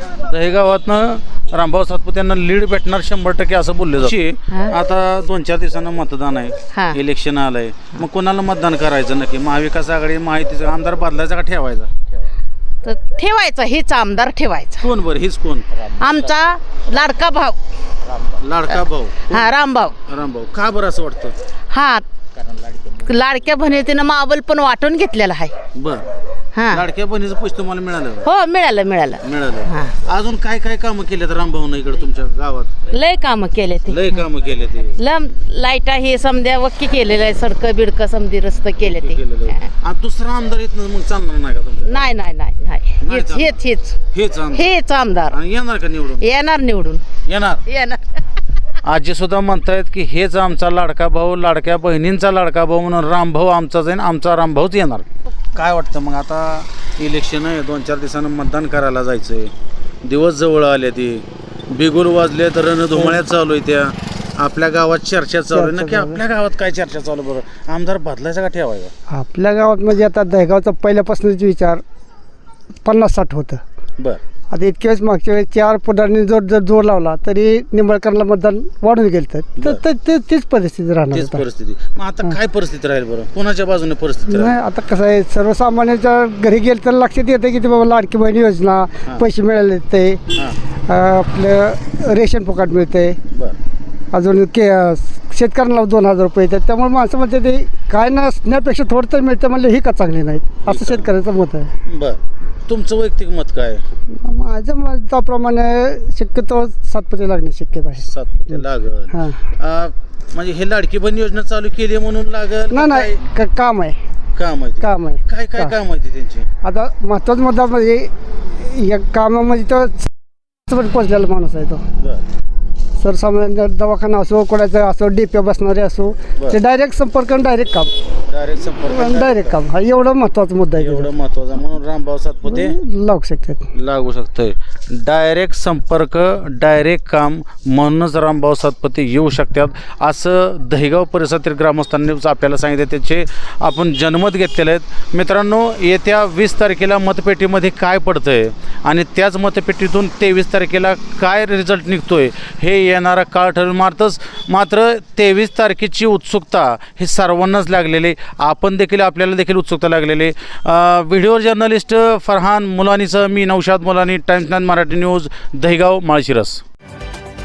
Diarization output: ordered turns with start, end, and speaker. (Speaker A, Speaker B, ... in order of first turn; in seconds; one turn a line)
Speaker A: 0.3-12.2
Speaker B: 12.8-14.8
Speaker A: 14.8-17.0
Speaker B: 16.0-17.6
Speaker A: 18.3-21.4
Speaker B: 19.3-19.9
Speaker B: 21.7-22.0
Speaker B: 23.1-25.5
Speaker A: 25.8-26.1
Speaker A: 26.7-28.3
Speaker B: 28.2-29.9
Speaker A: 29.2-32.8
Speaker B: 32.9-34.0
Speaker A: 33.9-35.0
Speaker B: 35.0-39.7
Speaker A: 38.8-42.2
Speaker B: 41.9-43.9
Speaker A: 43.0-43.6
Speaker A: 44.1-44.8
Speaker B: 44.6-45.3
Speaker A: 45.3-46.3
Speaker B: 46.3-47.0
Speaker A: 47.3-47.6
Speaker B: 47.7-48.0
Speaker A: 48.9-59.5
Speaker A: 60.0-68.9
Speaker C: 65.5-66.2
Speaker C: 69.1-71.8
Speaker C: 72.8-73.6
Speaker C: 74.5-81.4
Speaker A: 79.6-79.8
Speaker A: 81.1-84.6
Speaker C: 84.3-90.2
Speaker C: 90.9-93.2
Speaker C: 94.1-101.7
Speaker A: 100.7-101.1
Speaker A: 101.9-103.8
Speaker C: 104.2-108.6
Speaker A: 108.0-113.2
Speaker C: 109.1-109.4
Speaker C: 112.7-114.0
Speaker A: 114.3-116.5
Speaker C: 114.8-115.7
Speaker C: 116.6-118.1
Speaker C: 118.7-120.1
Speaker C: 120.7-121.8
Speaker C: 123.0-127.9
Speaker A: 128.3-129.6
Speaker C: 128.8-131.1
Speaker A: 130.8-132.8
Speaker C: 132.4-133.7
Speaker A: 133.7-166.6